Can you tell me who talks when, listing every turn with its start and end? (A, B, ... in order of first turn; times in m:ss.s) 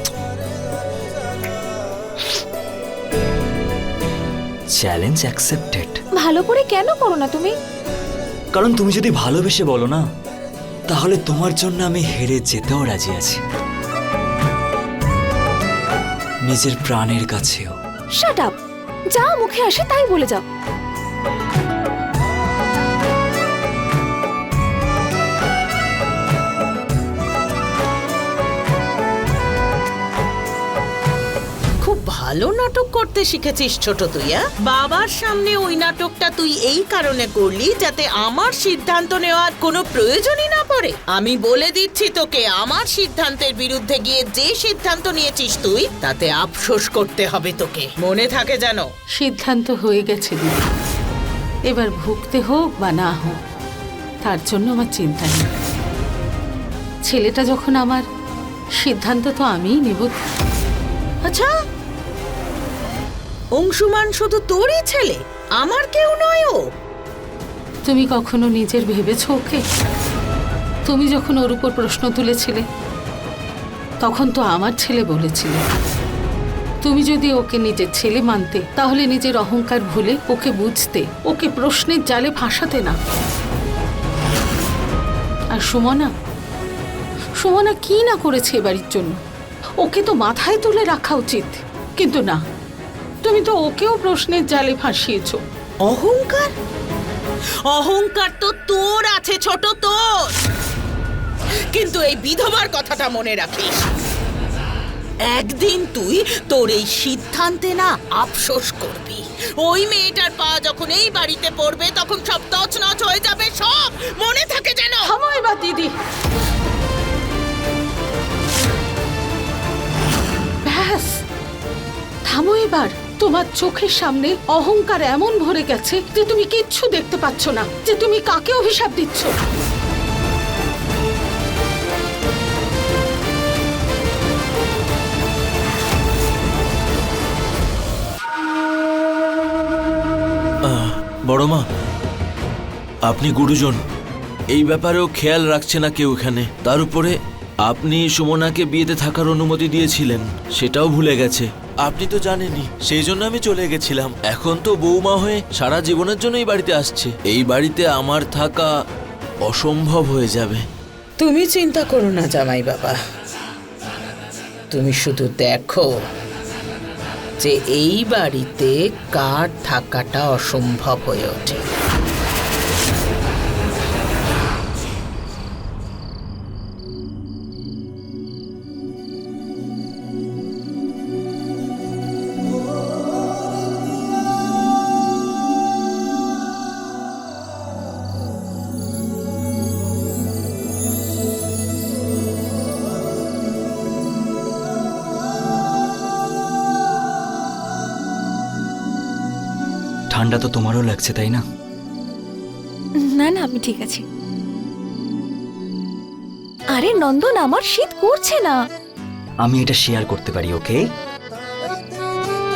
0:04.8-0:06.0 A
0:06.2-0:07.6 B
0:08.5-0:10.0 A
0:10.9-0:13.4 A
0:16.5-0:17.7 A
0:18.2-0:18.6 B
0:19.1-0:20.4 B
0:31.8-0:48.9 C
0:49.2-0:50.7 D
0:51.7-0:53.4 D
0:54.2-0:55.5 D
0:57.0-0:58.0 D
0:58.8-1:00.2 D
1:03.6-1:06.6 C
1:07.9-1:09.6 D
1:10.9-1:12.6 D
1:14.0-1:15.6 D
1:16.8-1:23.0 D
1:25.5-1:26.1 D
1:27.4-1:29.2 D
1:29.8-1:32.4 D
1:33.2-1:35.4 D
1:35.8-1:36.5 C
1:37.7-1:40.3 C
1:41.7-1:43.9 C
1:45.3-1:55.1 C
1:55.0-1:55.9 D
2:00.6-2:01.2 D
2:02.3-2:09.4 D
2:20.6-2:21.6 E
2:23.1-2:23.8 E
2:24.5-2:38.7 E
2:39.4-2:40.6 E
2:41.2-2:43.0 C
2:44.7-2:45.9 C
2:47.4-2:51.7 C
3:20.1-3:21.4 A
3:23.0-3:24.0 B
3:26.7-3:28.6 B
3:29.4-3:30.8 A